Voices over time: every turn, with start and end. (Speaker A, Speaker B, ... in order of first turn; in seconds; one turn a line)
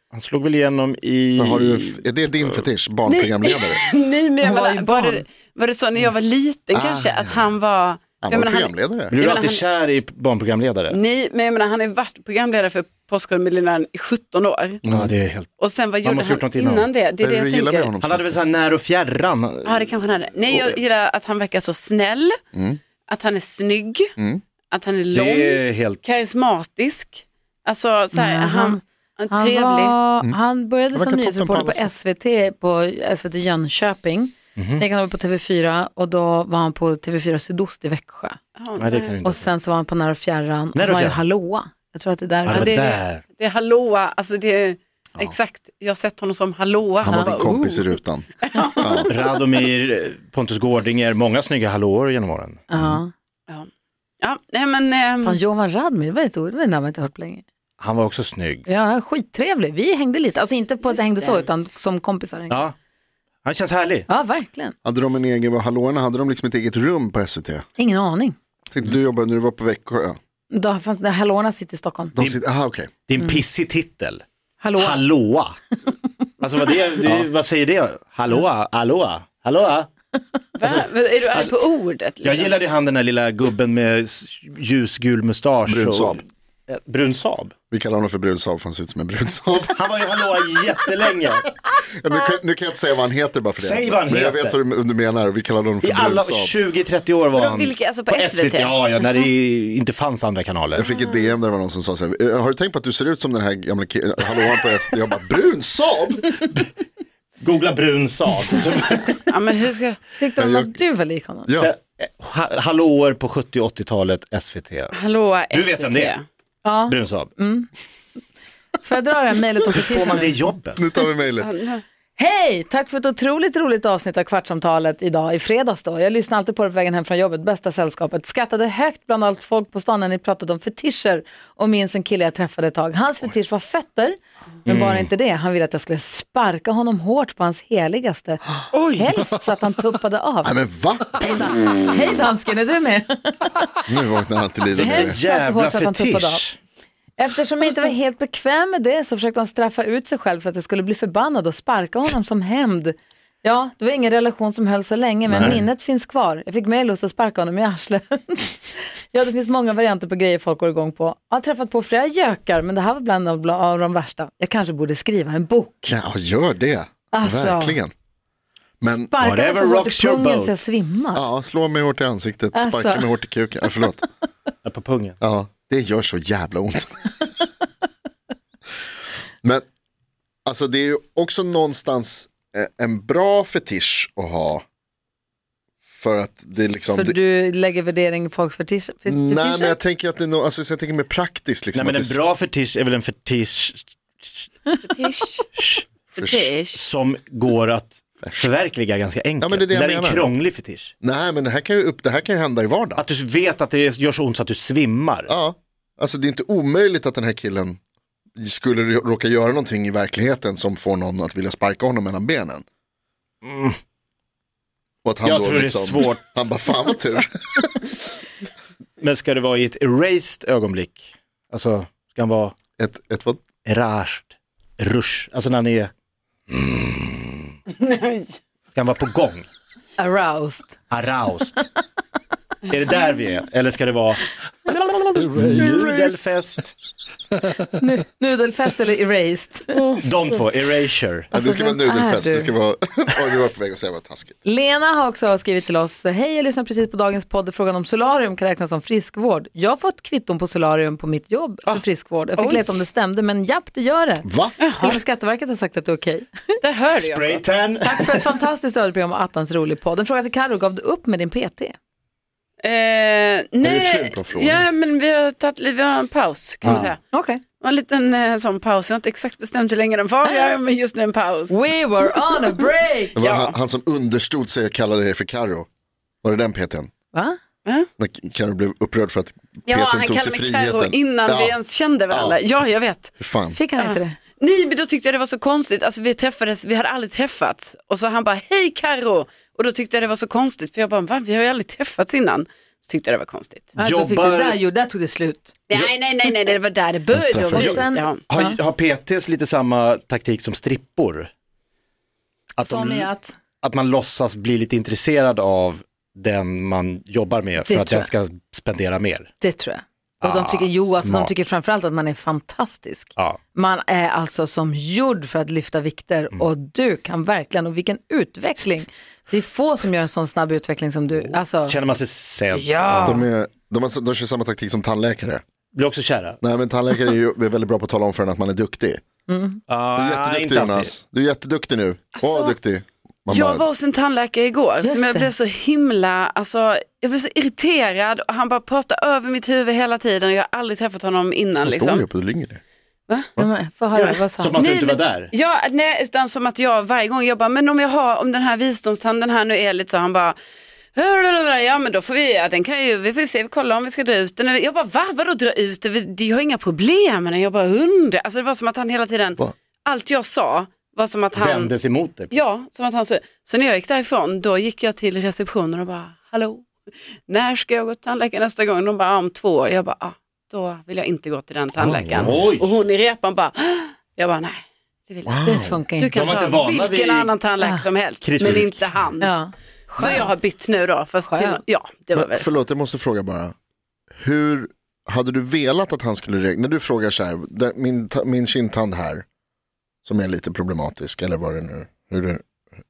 Speaker A: 0.1-2.0
Speaker B: 1.4-3.8
Speaker C: 3.1-9.6
Speaker D: 4.4-5.2
Speaker B: 6.7-7.5
Speaker B: 8.2-9.1
Speaker A: 9.1-11.0
Speaker C: 10.9-14.8
Speaker B: 14.8-15.1
Speaker A: 14.8-15.5
Speaker C: 15.6-17.9
Speaker A: 16.0-16.9
Speaker B: 17.2-18.4
Speaker A: 18.0-20.0
Speaker C: 19.6-22.4
Speaker B: 22.5-22.8
Speaker C: 23.1-24.1
Speaker C: 24.7-29.9
Speaker A: 25.1-26.0
Speaker D: 28.1-38.4
Speaker B: 30.9-31.9
Speaker A: 34.5-34.8
Speaker C: 38.6-39.2
Speaker A: 38.8-39.5
Speaker D: 39.2-42.8
Speaker A: 40.7-41.2
Speaker A: 42.5-43.2
Speaker C: 42.5-47.9
Speaker B: 47.0-49.1
Speaker D: 47.1-47.4
Speaker C: 48.4-49.0
Speaker A: 49.0-52.6
Speaker D: 52.7-53.1
Speaker B: 52.7-53.0
Speaker C: 54.2-55.4
Speaker D: 55.2-57.4
Speaker A: 57.8-58.6
Speaker D: 58.6-62.7
Speaker C: 60.9-61.4
Speaker A: 63.4-64.1
Speaker D: 64.1-64.7
Speaker B: 64.8-67.7
Speaker D: 67.8-68.3
Speaker B: 68.7-70.2
Speaker D: 70.5-72.2
Speaker B: 72.1-72.9
Speaker A: 72.2-72.4
Speaker A: 73.0-74.2
Speaker D: 74.6-75.0
Speaker A: 74.7-75.6
Speaker A: 76.4-79.9
Speaker C: 80.5-82.5
Speaker A: 80.6-81.6
Speaker A: 82.2-87.5
Speaker B: 85.7-86.2
Speaker B: 87.7-89.8
Speaker A: 89.7-91.5
Speaker B: 91.8-96.5
Speaker A: 93.5-94.6
Speaker A: 95.8-100.8
Speaker C: 97.3-98.8
Speaker B: 100.8-106.4
Speaker A: 107.4-109.2
Speaker C: 109.3-110.0
Speaker D: 110.2-111.5
Speaker B: 110.4-110.8
Speaker B: 111.5-111.7
Speaker A: 111.5-115.0
Speaker C: 114.9-116.2
Speaker A: 115.5-116.1
Speaker D: 116.6-117.7
Speaker A: 116.8-117.3
Speaker D: 118.8-120.4
Speaker A: 119.8-120.8
Speaker B: 120.8-121.5
Speaker C: 121.4-121.8
Speaker D: 122.2-143.9
Speaker A: 134.7-135.1
Speaker B: 140.4-141.3
Speaker B: 143.9-145.2
Speaker A: 144.7-146.6
Speaker D: 144.7-146.4
Speaker D: 147.2-165.9
Speaker B: 155.3-155.6
Speaker B: 165.9-167.9
Speaker D: 167.1-167.8
Speaker B: 168.8-169.1
Speaker D: 168.8-171.2
Speaker A: 169.2-170.6
Speaker B: 171.1-174.0
Speaker D: 172.5-173.1
Speaker A: 174.6-175.2
Speaker B: 175.2-177.3
Speaker B: 180.4-184.6
Speaker B: 185.9-187.2
Speaker D: 186.9-189.8
Speaker B: 189.1-192.2
Speaker A: 191.7-194.5
Speaker C: 194.8-195.4
Speaker A: 195.5-196.1
Speaker B: 196.1-196.5
Speaker C: 196.2-196.8
Speaker A: 196.7-200.9
Speaker B: 198.2-198.5
Speaker B: 199.4-200.3
Speaker B: 201.0-203.0
Speaker A: 203.0-205.3
Speaker B: 205.3-207.8
Speaker B: 208.4-212.6
Speaker A: 213.4-213.8
Speaker B: 215.0-217.9
Speaker A: 215.2-216.3
Speaker A: 219.0-222.5
Speaker B: 222.8-223.4
Speaker A: 223.6-225.9
Speaker A: 226.5-227.5
Speaker C: 227.7-228.3
Speaker A: 228.7-229.5
Speaker D: 230.0-230.9
Speaker A: 230.9-231.6
Speaker A: 232.7-234.3
Speaker B: 234.7-236.2
Speaker A: 235.2-236.7
Speaker D: 237.7-239.9
Speaker A: 240.0-241.3
Speaker B: 241.3-244.4
Speaker D: 241.3-242.5
Speaker D: 244.4-254.3
Speaker B: 254.2-254.5
Speaker C: 254.6-255.0
Speaker D: 254.8-256.6
Speaker C: 256.6-257.4
Speaker A: 257.0-258.3
Speaker D: 257.8-261.7
Speaker C: 262.6-267.0
Speaker B: 263.6-264.6
Speaker D: 266.7-267.4
Speaker C: 267.6-271.6
Speaker D: 271.5-273.2
Speaker B: 273.1-275.7
Speaker C: 273.2-273.5
Speaker B: 276.2-276.9
Speaker B: 278.0-281.6
Speaker C: 279.7-283.1
Speaker B: 282.1-282.4
Speaker B: 283.2-283.6
Speaker D: 283.5-284.2
Speaker C: 283.8-293.7
Speaker D: 293.8-295.5
Speaker A: 293.8-294.6
Speaker C: 295.7-298.2
Speaker B: 297.1-297.8
Speaker D: 297.5-298.6
Speaker A: 297.6-301.3
Speaker A: 302.6-303.1
Speaker D: 302.6-303.4
Speaker A: 303.6-309.3
Speaker D: 307.6-308.1
Speaker D: 309.4-321.8
Speaker A: 310.2-311.3
Speaker A: 321.2-323.2
Speaker D: 322.5-323.2
Speaker B: 323.0-325.4
Speaker A: 325.7-326.4
Speaker B: 326.4-329.0
Speaker D: 329.3-329.6
Speaker A: 329.7-330.9
Speaker B: 329.9-333.6
Speaker C: 332.1-332.6
Speaker C: 333.3-342.0
Speaker D: 334.8-335.3
Speaker B: 341.6-342.6
Speaker D: 343.4-344.6
Speaker C: 343.9-350.4
Speaker A: 344.4-345.3
Speaker C: 350.9-361.7
Speaker A: 361.3-362.3
Speaker C: 362.3-366.7
Speaker C: 367.3-375.4
Speaker B: 371.8-372.3
Speaker A: 372.1-372.7
Speaker B: 375.2-375.8
Speaker D: 375.4-376.1
Speaker C: 376.0-379.3
Speaker A: 376.1-377.3
Speaker A: 378.2-378.9
Speaker D: 379.2-380.4
Speaker C: 379.9-382.5
Speaker D: 381.3-381.6
Speaker B: 382.1-383.5
Speaker B: 384.2-389.2
Speaker B: 390.0-392.4